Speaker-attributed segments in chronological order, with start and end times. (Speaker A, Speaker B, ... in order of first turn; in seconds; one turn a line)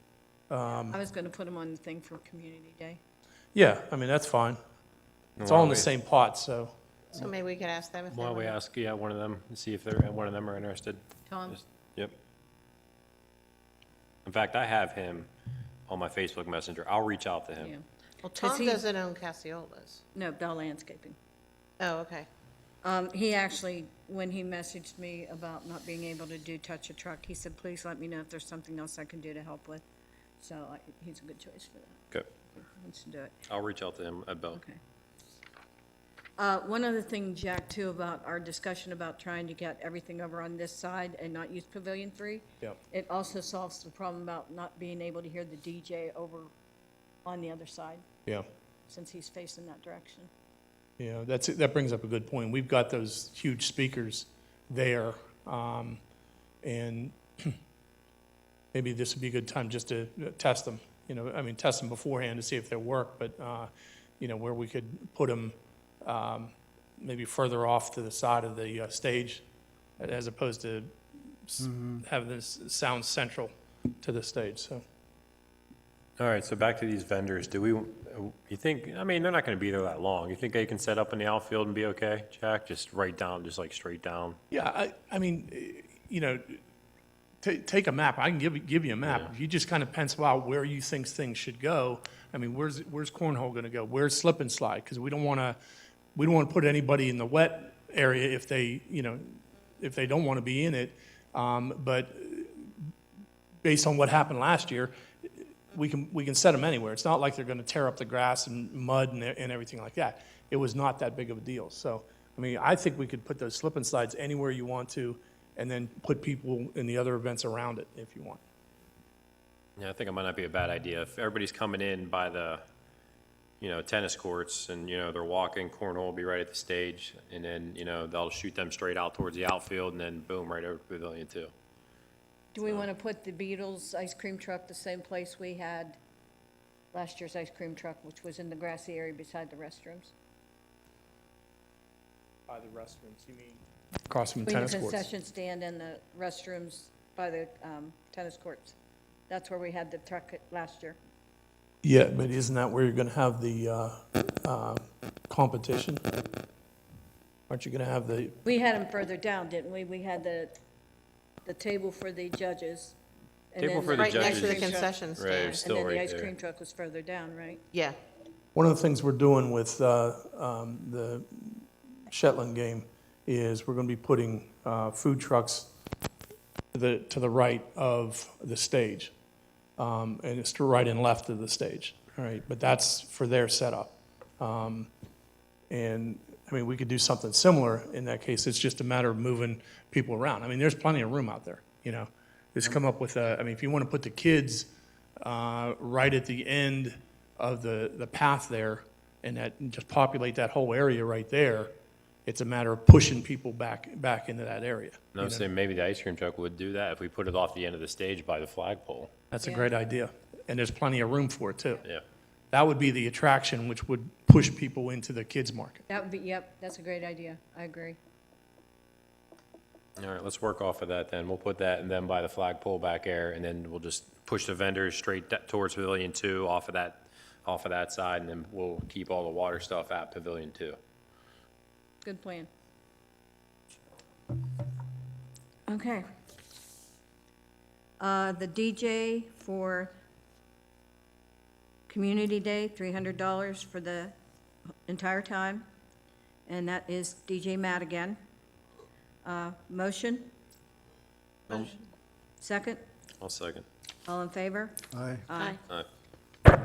Speaker A: 0.5-1.0
Speaker B: 0.8-3.0
Speaker A: 3.5-4.6
Speaker C: 5.4-5.9
Speaker A: 5.4-6.7
Speaker D: 7.1-8.6
Speaker C: 8.1-12.1
Speaker B: 11.3-11.6
Speaker C: 14.2-15.3
Speaker C: 15.9-17.7
Speaker B: 17.6-17.8
Speaker D: 18.2-20.0
Speaker B: 18.4-18.8
Speaker B: 20.1-21.2
Speaker D: 21.8-22.3
Speaker B: 22.8-29.8
Speaker B: 30.4-32.0
Speaker B: 32.5-33.3
Speaker C: 33.5-34.6
Speaker B: 36.4-46.5
Speaker B: 47.2-48.0
Speaker B: 48.9-50.3
Speaker A: 51.0-56.0
Speaker A: 56.6-57.6
Speaker A: 58.7-69.4
Speaker A: 70.0-74.8
Speaker C: 76.2-84.4
Speaker A: 84.5-86.6
Speaker A: 87.4-95.6
Speaker A: 96.1-102.7
Speaker A: 103.6-104.9
Speaker A: 105.7-118.4
Speaker C: 119.8-122.6
Speaker C: 123.6-131.5
Speaker B: 132.5-136.0
Speaker B: 136.9-140.1
Speaker A: 142.5-145.1
Speaker B: 144.4-148.8
Speaker B: 149.3-151.0
Speaker A: 151.8-156.0
Speaker A: 157.5-158.4
Speaker B: 158.4-160.6
Speaker B: 161.4-162.9
Speaker B: 163.5-167.6
Speaker C: 163.6-166.3
Speaker D: 163.9-165.6
Speaker A: 168.5-175.7
Speaker A: 176.7-179.1
Speaker A: 179.8-184.9
Speaker A: 185.7-194.7
Speaker A: 195.2-201.7
Speaker A: 202.2-205.4
Speaker C: 205.2-209.1
Speaker A: 209.3-211.8
Speaker B: 209.4-209.7
Speaker A: 212.5-215.8
Speaker B: 215.9-218.0
Speaker C: 220.0-230.8
Speaker B: 232.0-232.5
Speaker B: 235.7-236.1
Speaker B: 238.0-239.9
Speaker B: 241.9-244.2
Speaker B: 244.9-245.7
Speaker B: 246.5-248.2
Speaker B: 249.2-250.3
Speaker C: 251.5-251.8
Speaker B: 252.4-252.8
Speaker C: 253.2-253.7
Speaker B: 254.1-255.6